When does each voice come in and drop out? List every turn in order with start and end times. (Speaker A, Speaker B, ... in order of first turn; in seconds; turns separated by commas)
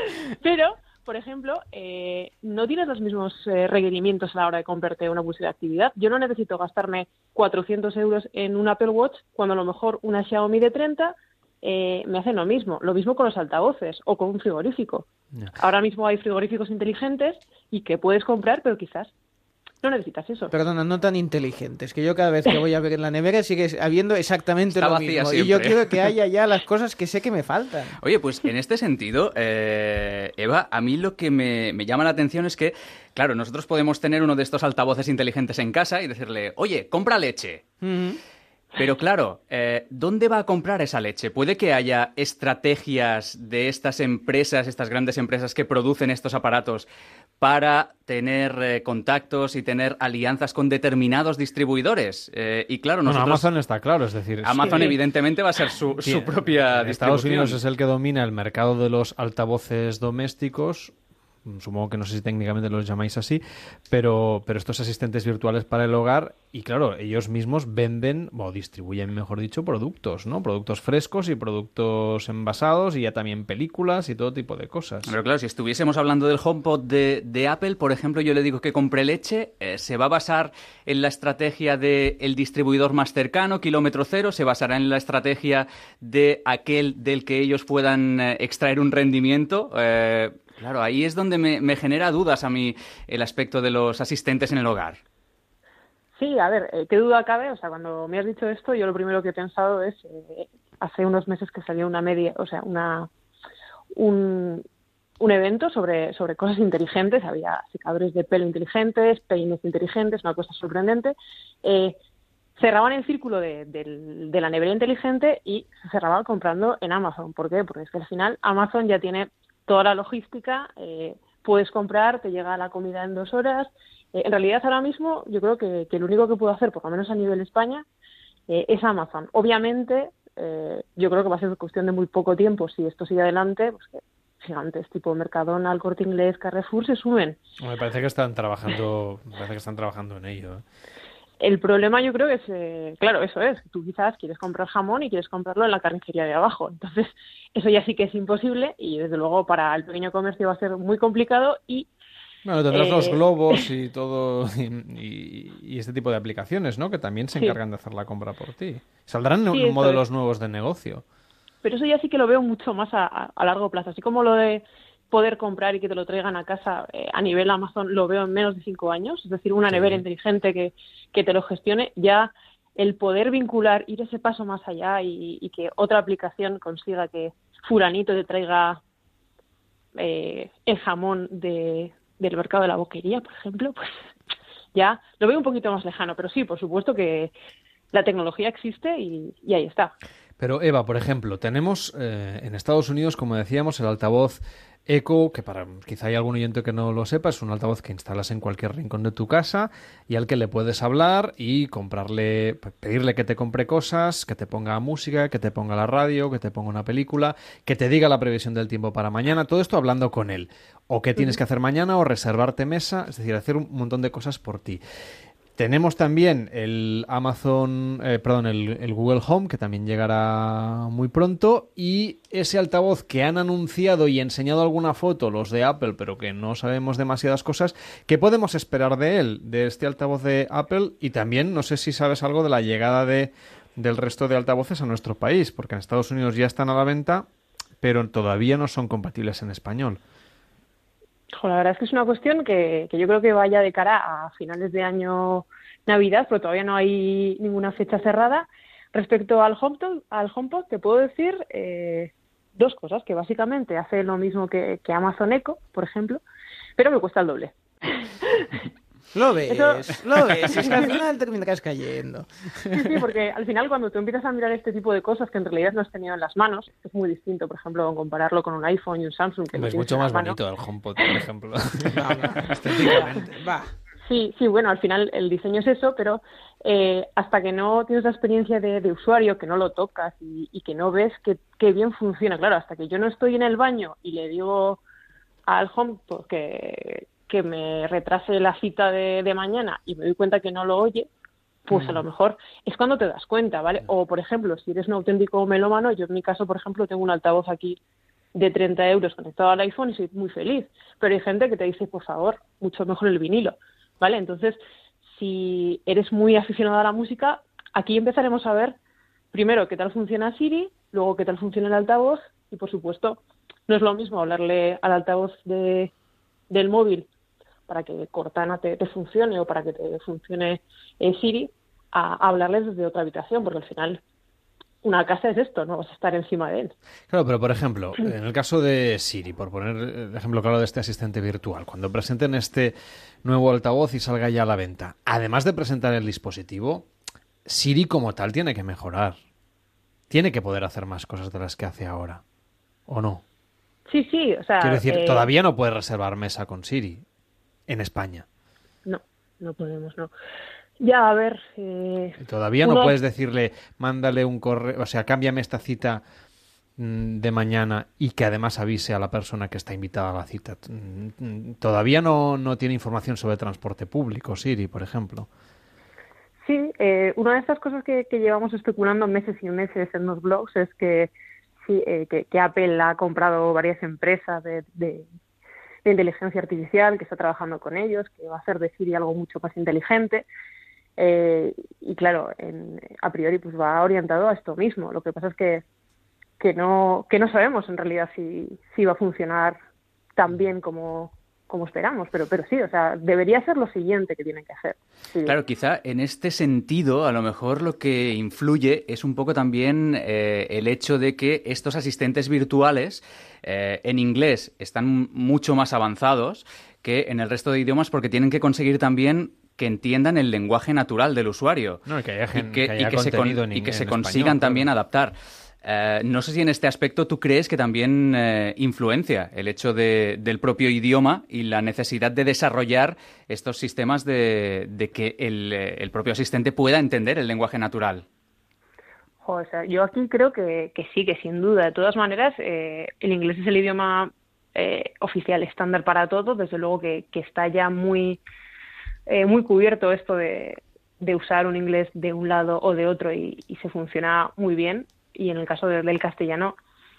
Speaker A: 0.3-19.1, Speaker A: 19.8-20.5, Speaker B: 20.5-28.0, Speaker C: 24.7-26.1, Speaker C: 28.0-37.6, Speaker B: 37.8-38.2, Speaker C: 38.8-46.9, Speaker C: 47.4-53.5, Speaker D: 53.0-55.0, Speaker C: 54.4-57.6, Speaker A: 54.6-55.0, Speaker D: 56.0-60.9, Speaker D: 61.5-75.1, Speaker C: 75.0-95.0, Speaker A: 96.2-103.1, Speaker A: 103.9-104.6, Speaker A: 105.2-112.0, Speaker A: 112.6-127.8, Speaker A: 128.5-137.4, Speaker D: 137.6-140.6, Speaker A: 141.4-151.9, Speaker D: 152.4-161.0, Speaker A: 152.7-153.7, Speaker A: 159.5-160.0, Speaker A: 161.6-178.8, Speaker D: 169.7-170.0, Speaker A: 179.9-183.9, Speaker A: 184.7-187.3, Speaker A: 187.9-189.9, Speaker D: 190.4-214.8, Speaker D: 215.6-237.3, Speaker D: 237.8-240.0, Speaker A: 241.3-256.2, Speaker A: 256.8-257.5, Speaker B: 259.1-262.7, Speaker A: 259.5-259.8, Speaker A: 262.7-270.4, Speaker D: 269.5-273.6, Speaker B: 271.9-273.6, Speaker A: 274.0-284.8, Speaker A: 285.5-291.1, Speaker A: 291.7-297.8, Speaker D: 291.7-292.0, Speaker A: 298.3-304.6, Speaker A: 305.2-308.8, Speaker A: 309.3-315.9, Speaker A: 316.5-317.1, Speaker A: 317.7-324.0, Speaker A: 324.8-326.7, Speaker D: 327.1-336.9, Speaker D: 337.5-339.2, Speaker D: 340.1-342.2, Speaker D: 342.9-343.2, Speaker A: 343.9-345.3, Speaker D: 344.6-347.0, Speaker D: 347.7-348.2, Speaker A: 348.9-350.1, Speaker A: 350.8-353.0, Speaker D: 352.2-356.0, Speaker D: 356.8-365.3, Speaker A: 366.4-371.1, Speaker A: 371.6-375.1, Speaker A: 375.9-380.3, Speaker A: 381.0-385.6, Speaker A: 386.4-389.6, Speaker A: 390.2-395.4, Speaker C: 395.2-428.1, Speaker D: 411.9-414.7, Speaker A: 429.2-438.2, Speaker A: 439.1-446.5